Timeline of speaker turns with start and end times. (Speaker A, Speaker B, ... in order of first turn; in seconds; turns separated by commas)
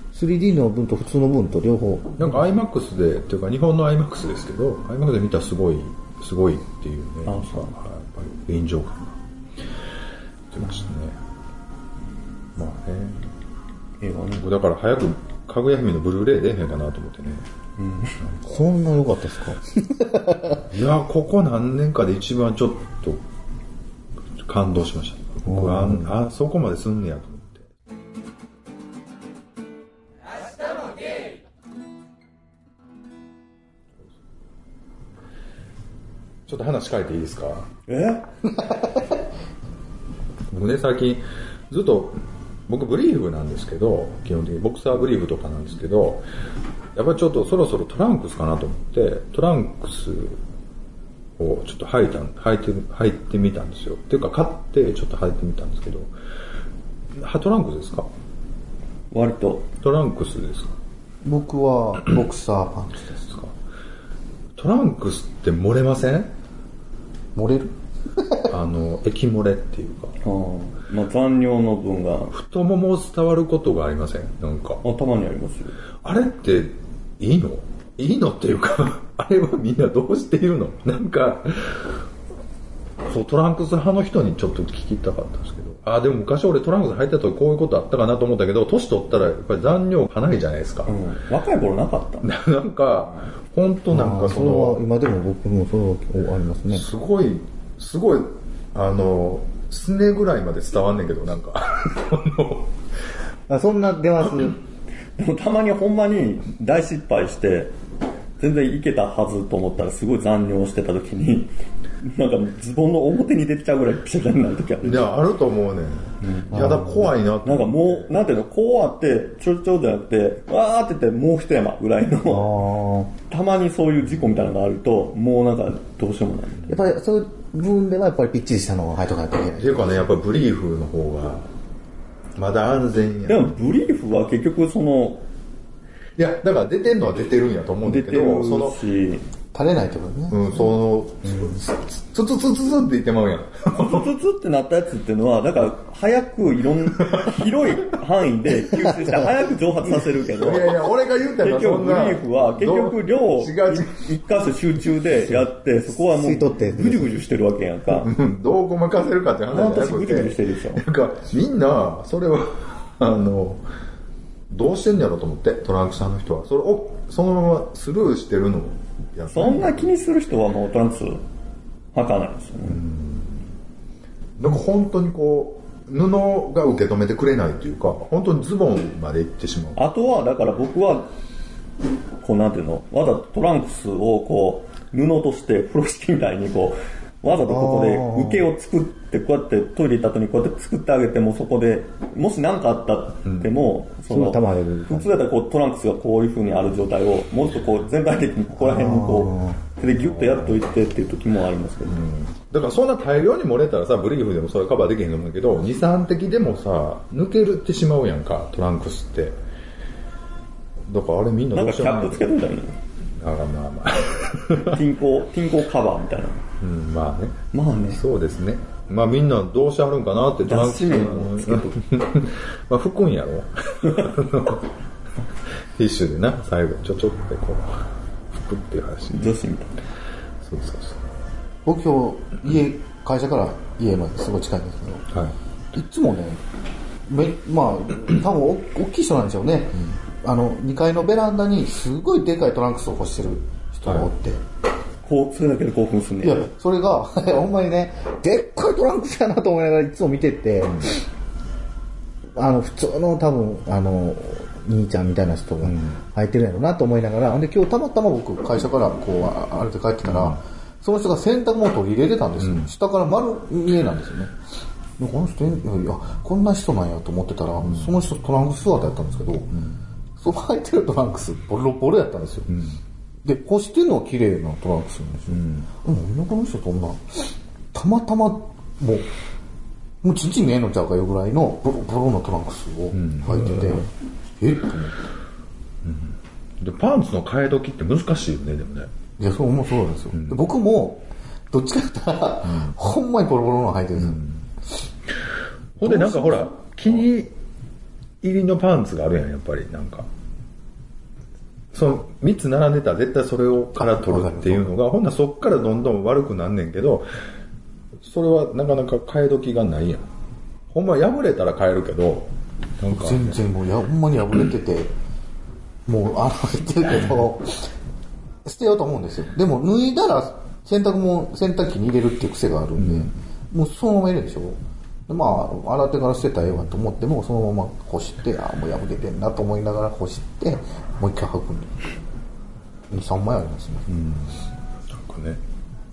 Speaker A: 0.1-2.4, Speaker B: 2.2-9.2, Speaker C: 7.2-7.8, Speaker B: 10.5-11.2, Speaker B: 12.5-13.3, Speaker C: 14.0-14.5, Speaker B: 14.3-17.4, Speaker C: 17.8-18.2, Speaker B: 18.2-18.6, Speaker A: 18.5-20.6, Speaker B: 20.7-23.2, Speaker B: 24.4-27.7, Speaker A: 25.4-26.1, Speaker B: 36.5-37.7, Speaker C: 37.9-38.3, Speaker B: 40.5-46.2, Speaker B: 46.9-50.4, Speaker B: 51.4-56.1, Speaker B: 57.1-58.1, Speaker C: 59.1-59.7, Speaker B: 59.8-60.7, Speaker A: 61.2-63.3, Speaker B: 64.5-66.3, Speaker A: 67.3-68.5, Speaker B: 68.5-70.2, Speaker C: 70.2-72.3, Speaker B: 72.3-74.8, Speaker C: 74.8-75.8, Speaker B: 76.0-82.0, Speaker B: 83.1-91.0, Speaker C: 90.9-92.3, Speaker B: 92.2-94.8, Speaker A: 93.9-96.8, Speaker B: 96.7-102.7, Speaker A: 103.5-104.6, Speaker C: 105.2-107.7, Speaker C: 108.4-115.1, Speaker B: 114.8-118.1, Speaker C: 116.2-116.8, Speaker A: 116.5-117.1, Speaker C: 117.4-122.5, Speaker A: 122.2-123.1, Speaker C: 123.3-126.8, Speaker A: 126.7-130.1, Speaker B: 129.6-131.5, Speaker B: 132.3-133.6, Speaker C: 133.2-135.2, Speaker B: 136.2-138.8, Speaker C: 137.8-139.3, Speaker A: 139.5-140.7, Speaker B: 140.3-144.1, Speaker C: 143.7-150.8, Speaker B: 147.0-147.3, Speaker A: 148.9-149.1, Speaker B: 150.3-154.0, Speaker C: 151.4-158.1, Speaker A: 155.9-157.1, Speaker B: 158.0-163.6, Speaker C: 159.5-160.8, Speaker B: 164.5-169.9, Speaker C: 169.3-171.2, Speaker C: 171.9-172.8, Speaker B: 172.7-173.4, Speaker B: 174.4-179.8, Speaker C: 179.8-181.1, Speaker C: 182.2-202.0, Speaker A: 187.4-188.4, Speaker B: 193.2-193.5, Speaker A: 194.1-195.1, Speaker A: 198.6-199.6, Speaker B: 200.0-200.6, Speaker B: 201.9-209.4, Speaker B: 210.8-212.3, Speaker C: 211.5-212.8, Speaker B: 213.2-214.8, Speaker C: 214.6-216.4, Speaker B: 216.6-224.7, Speaker C: 217.5-218.0, Speaker C: 220.4-221.8, Speaker B: 225.7-227.8, Speaker B: 228.3-229.3, Speaker C: 229.1-229.8, Speaker B: 230.4-231.1, Speaker A: 231.7-235.1, Speaker A: 235.7-236.4, Speaker A: 237.1-244.4, Speaker C: 245.0-246.5, Speaker A: 246.2-251.1, Speaker A: 252.3-264.3, Speaker B: 255.6-256.0, Speaker B: 260.1-260.4, Speaker B: 262.4-262.7, Speaker A: 265.0-269.5, Speaker A: 270.2-272.5, Speaker B: 272.5-272.8, Speaker A: 273.2-279.1, Speaker B: 275.3-275.7, Speaker A: 280.0-285.0, Speaker B: 282.9-283.7, Speaker B: 285.8-288.9, Speaker A: 289.2-294.2, Speaker B: 290.1-290.4, Speaker B: 292.4-292.8, Speaker B: 294.0-294.4, Speaker B: 295.8-297.3, Speaker A: 295.8-296.6, Speaker B: 298.2-300.1, Speaker B: 301.7-307.1, Speaker A: 303.8-304.7, Speaker B: 308.0-310.1, Speaker B: 310.7-313.4, Speaker A: 312.9-314.9, Speaker A: 315.9-317.7, Speaker A: 318.4-331.8, Speaker B: 322.8-323.1, Speaker A: 332.9-333.9, Speaker B: 333.9-335.4